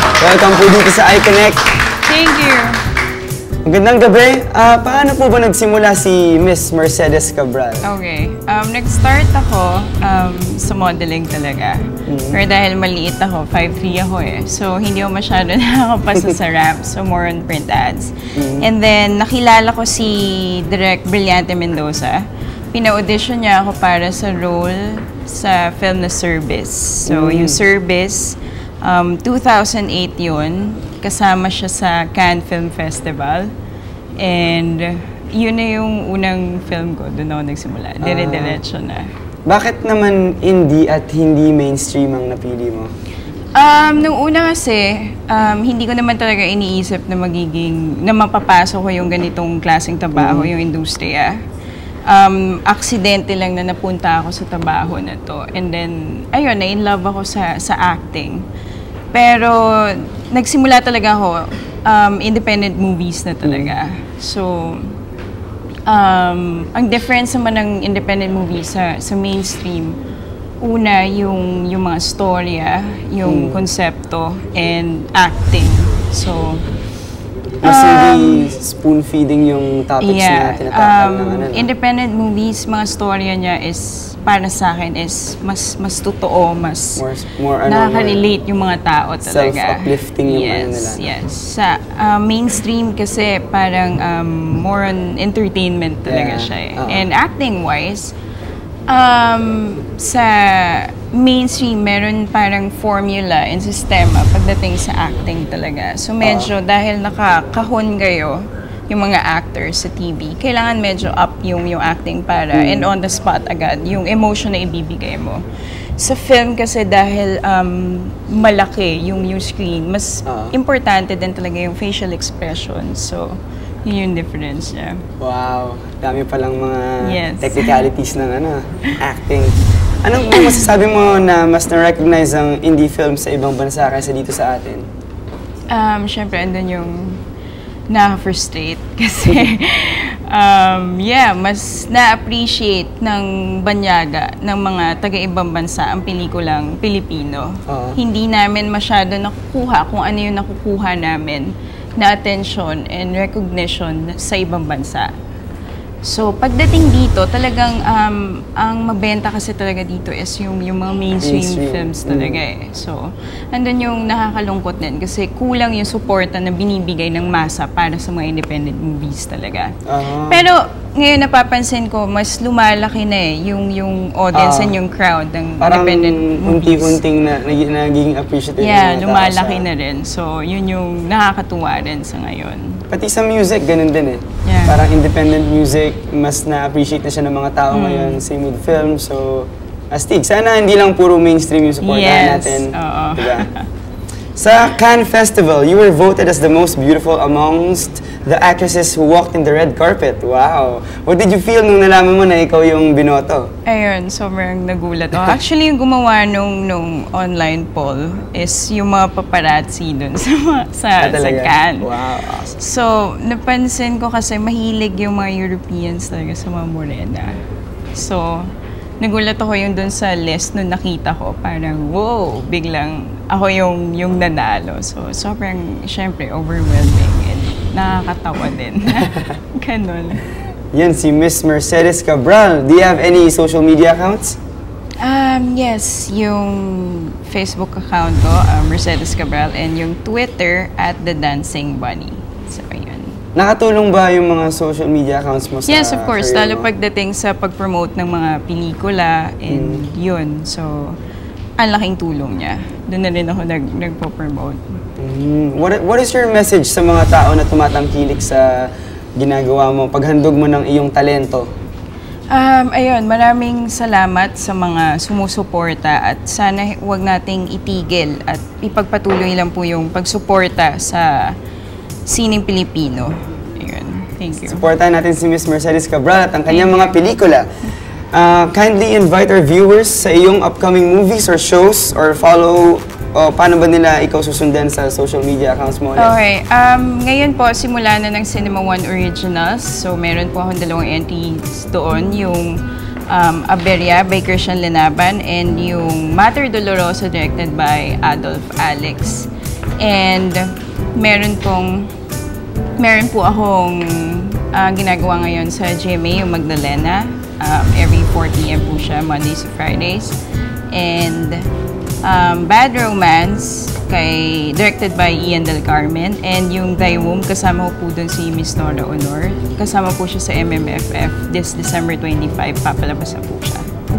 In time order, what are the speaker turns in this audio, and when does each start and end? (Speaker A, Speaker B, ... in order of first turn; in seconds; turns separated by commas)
Speaker A: 0.2-1.6, Speaker B: 2.0-2.9, Speaker A: 3.6-7.8, Speaker B: 7.8-33.5, Speaker A: 12.1-12.4, Speaker A: 18.4-18.7, Speaker A: 27.1-27.6, Speaker B: 34.2-39.1, Speaker A: 38.0-38.6, Speaker A: 39.5-42.9, Speaker B: 43.5-51.4, Speaker A: 50.1-50.5, Speaker B: 52.1-58.4, Speaker B: 59.1-65.0, Speaker A: 63.4-63.8, Speaker B: 65.9-70.0, Speaker B: 70.6-76.6, Speaker A: 73.2-73.6, Speaker A: 77.6-81.7, Speaker B: 77.6-78.5, Speaker B: 80.0-87.0, Speaker A: 87.0-88.2, Speaker B: 87.7-98.1, Speaker A: 89.2-91.0, Speaker A: 96.1-97.0, Speaker B: 98.9-115.4, Speaker A: 106.2-106.5, Speaker A: 112.5-112.9, Speaker B: 116.0-125.0, Speaker A: 120.2-120.5, Speaker A: 125.2-134.8, Speaker B: 127.0-127.9, Speaker B: 135.7-137.2, Speaker B: 137.9-155.1, Speaker A: 147.7-148.0, Speaker B: 156.0-177.0, Speaker A: 161.2-162.4, Speaker A: 169.9-170.4, Speaker A: 174.3-174.8, Speaker A: 175.6-179.7, Speaker B: 178.6-182.8, Speaker A: 182.9-193.5, Speaker B: 184.4-184.8, Speaker B: 187.7-188.2, Speaker B: 191.8-193.7, Speaker A: 194.3-203.5, Speaker B: 203.7-211.9, Speaker A: 211.0-212.5, Speaker B: 212.5-217.4, Speaker B: 217.9-230.3, Speaker A: 230.7-234.4, Speaker B: 235.0-243.2, Speaker A: 243.3-246.7, Speaker B: 245.7-251.0, Speaker A: 249.5-249.8, Speaker B: 251.6-254.6, Speaker A: 255.0-261.5, Speaker B: 262.3-271.4, Speaker B: 272.1-274.6, Speaker A: 274.4-277.4, Speaker B: 276.5-277.0, Speaker A: 278.1-286.1, Speaker B: 285.9-292.6, Speaker B: 293.1-299.3, Speaker B: 299.8-301.9, Speaker B: 302.8-310.2, Speaker B: 310.7-311.5, Speaker B: 312.0-323.7